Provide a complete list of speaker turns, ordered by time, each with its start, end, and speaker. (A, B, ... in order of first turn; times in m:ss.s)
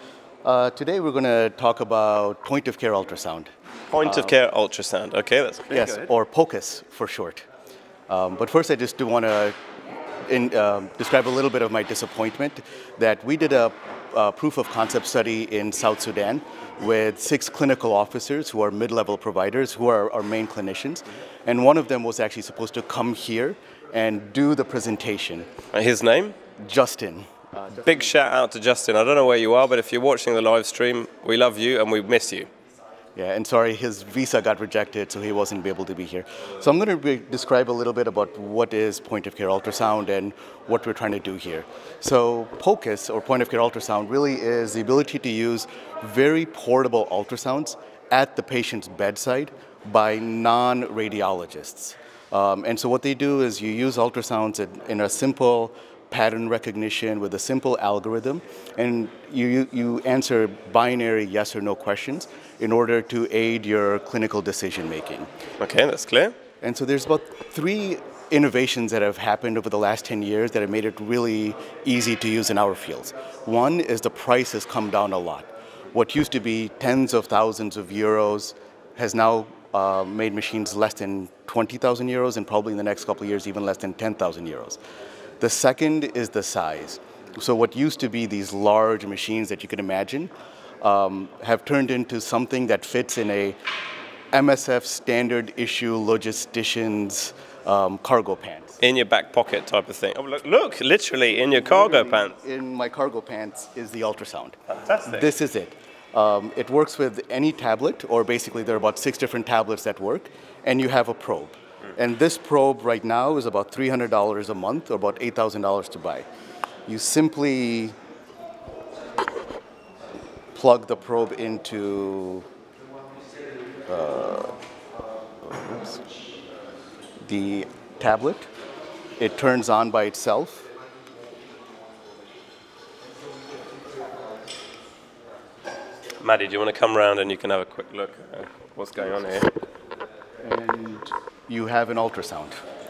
0:00.4-0:03.5 A
0:03.9-0:06.1 B
0:04.0-0:04.4 A
0:05.7-0:07.5 A
0:08.1-0:09.6 A
0:10.3-0:25.5 A
0:25.7-0:26.4 B
0:26.6-0:28.0 A
0:27.8-0:32.5 B
0:33.2-1:05.3 A
1:05.6-1:06.4 B
1:06.6-1:24.8 A
1:25.4-1:33.6 A
1:34.3-1:38.8 A
1:38.8-1:42.3 B
1:41.6-1:56.3 A
1:44.7-1:45.3 B
1:56.9-1:58.0 A
2:00.5-2:02.5 A
2:03.9-2:04.6 A
2:05.4-2:06.0 A
2:07.2-2:08.5 A
2:09.2-2:10.7 A
2:16.2-2:19.5 B
2:20.4-2:22.6 A